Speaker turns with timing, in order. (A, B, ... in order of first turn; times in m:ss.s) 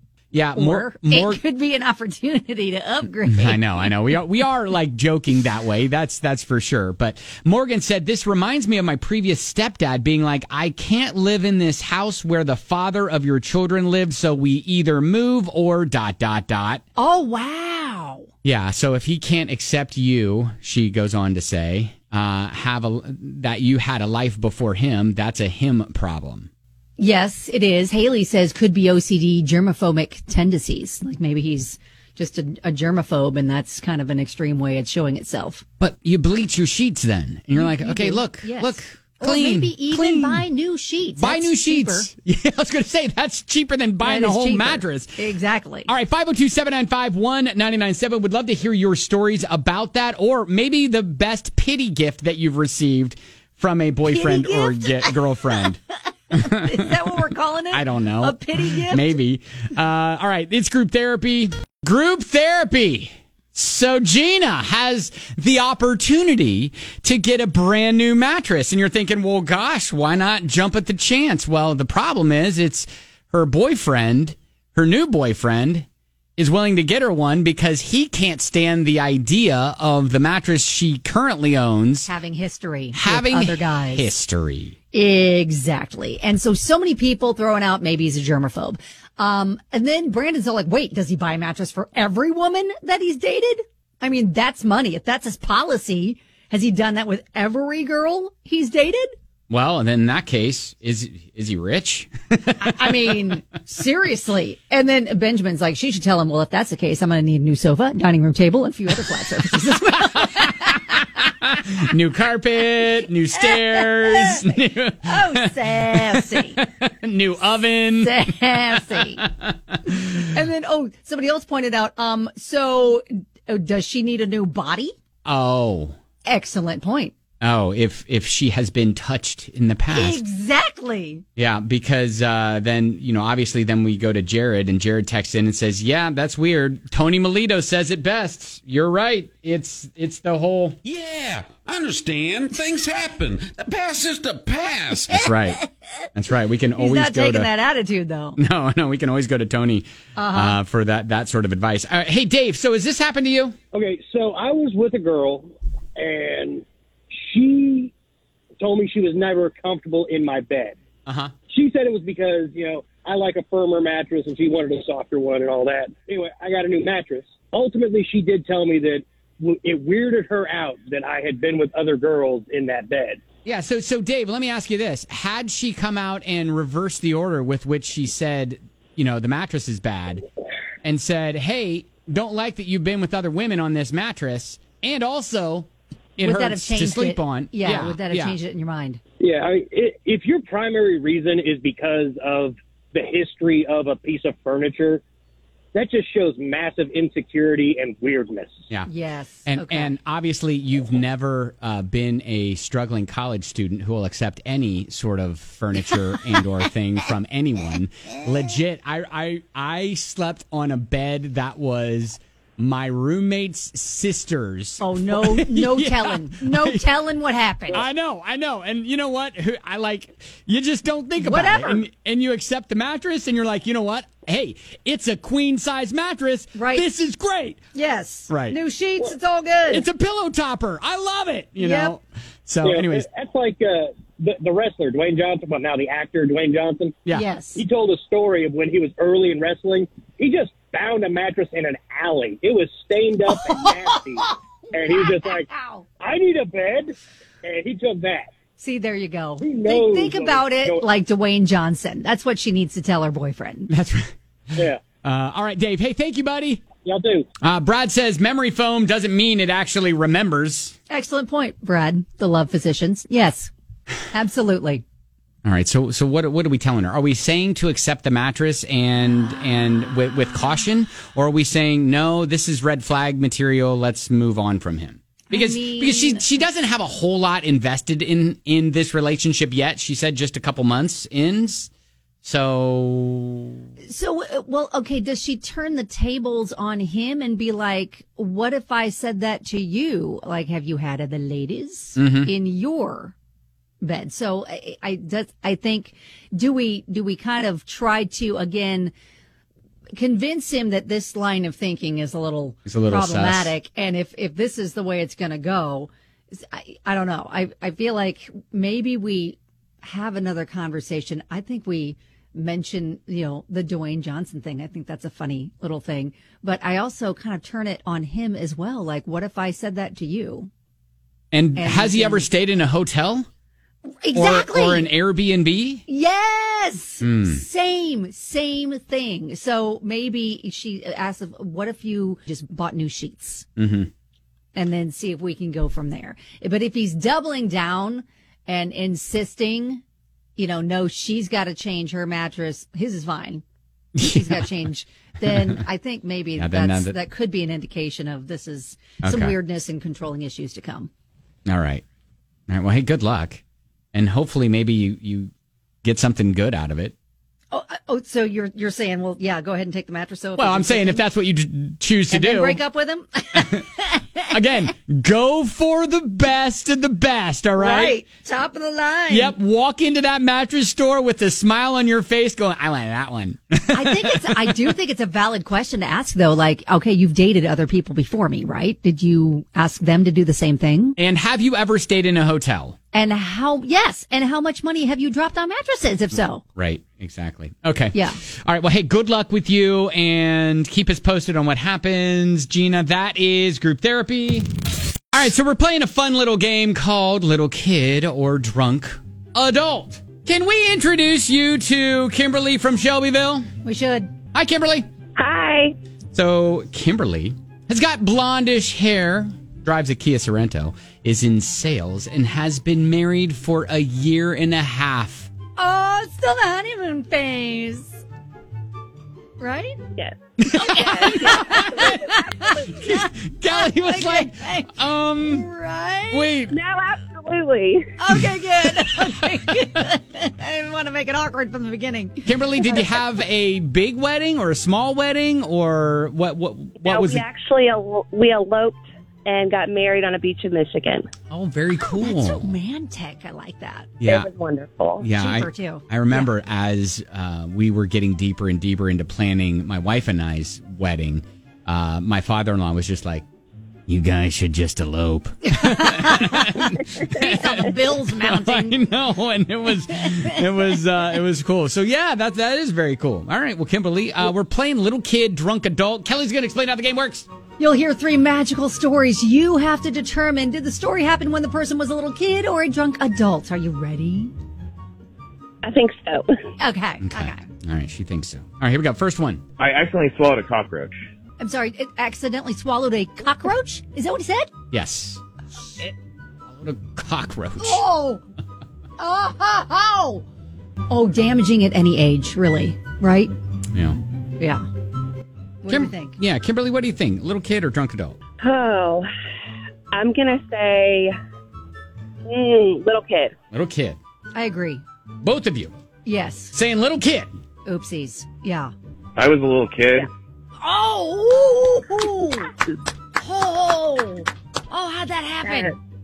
0:00.3-0:01.4 A
0:00.6-0:03.9 B
0:03.3-0:16.8 A
0:17.0-0:18.3 B
0:18.4-0:26.5 A
0:27.0-0:35.6 B
0:35.8-0:40.4 A
0:37.6-0:42.1 B
0:41.2-0:45.1 A
0:44.0-0:45.9 B
0:45.9-0:55.8 A
0:54.1-0:55.6 B
0:56.3-0:59.2 B
0:56.3-1:15.9 A
1:16.4-1:22.1 A
1:22.1-1:24.1 B
1:22.9-1:24.8 A
1:24.9-1:39.1 B
1:39.5-1:43.3 A
1:42.6-1:51.1 B
1:49.9-2:00.2 A
1:53.4-1:56.6 B
1:58.0-1:59.2 B
1:59.9-2:04.9 B
2:05.2-2:06.0 A
2:06.2-2:07.1 B
2:07.4-2:10.2 A
2:09.9-2:11.2 B
2:11.4-2:20.8 A
2:20.8-2:25.3 C
2:25.1-2:27.5 A
2:26.8-2:28.4 B
2:28.4-2:33.6 A
2:30.2-2:30.6 B
2:33.7-2:37.9 D
2:38.6-2:40.8 D
2:41.1-2:41.3 A
2:41.5-2:53.2 D
2:53.4-3:00.2 A
3:00.8-3:08.4 A
3:06.2-3:09.0 B
3:09.2-3:15.0 D
3:15.7-3:18.6 D
3:18.9-3:19.9 B
3:19.4-3:36.9 A
3:34.8-3:37.8 B
3:37.7-3:47.6 A
3:41.2-3:41.8 B
3:46.6-3:46.9 B
3:47.8-3:49.8 B
3:48.3-3:48.6 A
3:49.7-3:53.1 A
3:51.6-3:51.9 B
3:52.6-3:57.0 D
3:57.1-3:57.6 B
3:57.6-4:05.5 D
4:03.3-4:05.8 B
4:06.0-4:08.3 D
4:08.6-4:13.7 B
4:09.4-4:10.9 D
4:13.7-4:14.1 A
4:14.6-4:14.8 D
4:15.0-4:16.6 A
4:16.8-4:17.3 D
4:17.4-4:20.8 A
4:20.9-4:23.5 B
4:24.1-4:24.8 B
4:25.4-4:41.7 A
4:35.3-4:36.3 B
4:42.2-4:43.6 A
4:43.9-4:53.1 B
4:52.0-4:52.3 A
4:53.8-4:58.9 B
5:00.0-5:20.5 B
5:02.6-5:03.5 A
5:21.3-5:23.3 A
5:21.6-5:22.3 B
5:24.0-5:24.9 B
5:24.1-5:25.8 A
5:25.9-5:33.4 B
5:27.0-5:27.4 A
5:33.6-5:33.9 A
5:34.6-5:39.8 B
5:40.4-5:43.4 B
5:44.0-5:44.5 A
5:44.0-5:50.9 B
5:45.2-5:45.6 A
5:46.4-5:47.0 A
5:49.0-5:49.4 A
5:51.4-5:51.8 A
5:52.5-5:53.4 A
5:53.9-5:55.3 A
5:55.8-5:56.9 A
5:57.5-6:01.0 B
6:00.4-6:02.6 A
6:02.1-6:04.3 B
6:03.4-6:03.6 A
6:04.3-6:08.0 A
6:07.6-6:09.4 B
6:09.1-6:14.6 A
6:13.7-6:21.0 B
6:21.0-6:22.8 A
6:22.9-6:26.4 B
6:26.6-6:34.5 A
6:27.9-6:28.2 B
6:35.1-6:43.5 A
6:43.6-6:44.1 B
6:44.3-6:44.9 A
6:45.2-6:45.8 E
6:46.1-6:55.3 A
6:55.6-6:58.0 B
6:59.4-6:59.8 B
7:00.4-7:02.0 A
7:00.5-7:06.4 B
7:00.8-7:02.7 E
7:02.7-7:05.4 A
7:06.1-7:06.6 A
7:06.5-7:07.9 E
7:08.0-7:12.9 B
7:08.2-7:09.4 A
7:12.3-7:17.2 A
7:16.8-7:21.1 E
7:21.3-7:22.5 A
7:22.0-7:23.9 B
7:24.0-7:24.3 A
7:24.0-7:25.0 E
7:25.0-7:33.3 A
7:25.1-7:26.3 B
7:33.9-7:47.3 A
7:35.4-7:38.8 B
7:47.6-7:54.3 B
7:55.6-7:56.3 E
7:56.6-7:57.4 B
7:57.0-7:59.4 A
7:59.6-8:01.0 F
8:01.4-8:04.5 B
8:04.7-8:05.2 A
8:06.5-8:07.8 A
8:07.6-8:08.2 B
8:09.0-8:10.2 B
8:10.9-8:13.3 B
8:13.7-8:14.0 A
8:14.4-8:14.7 B
8:15.6-8:16.2 B
8:15.7-8:18.2 A
8:18.4-8:19.1 E
8:19.9-8:21.1 E
8:22.2-8:23.4 E
8:23.5-8:24.0 A
8:24.4-8:24.8 B
8:25.2-8:25.7 A
8:26.0-8:26.6 B
8:26.5-8:27.3 A
8:27.7-8:28.7 B
8:29.2-8:30.0 F
8:30.6-8:32.5 B
8:33.2-8:35.7 B
8:35.4-8:35.7 E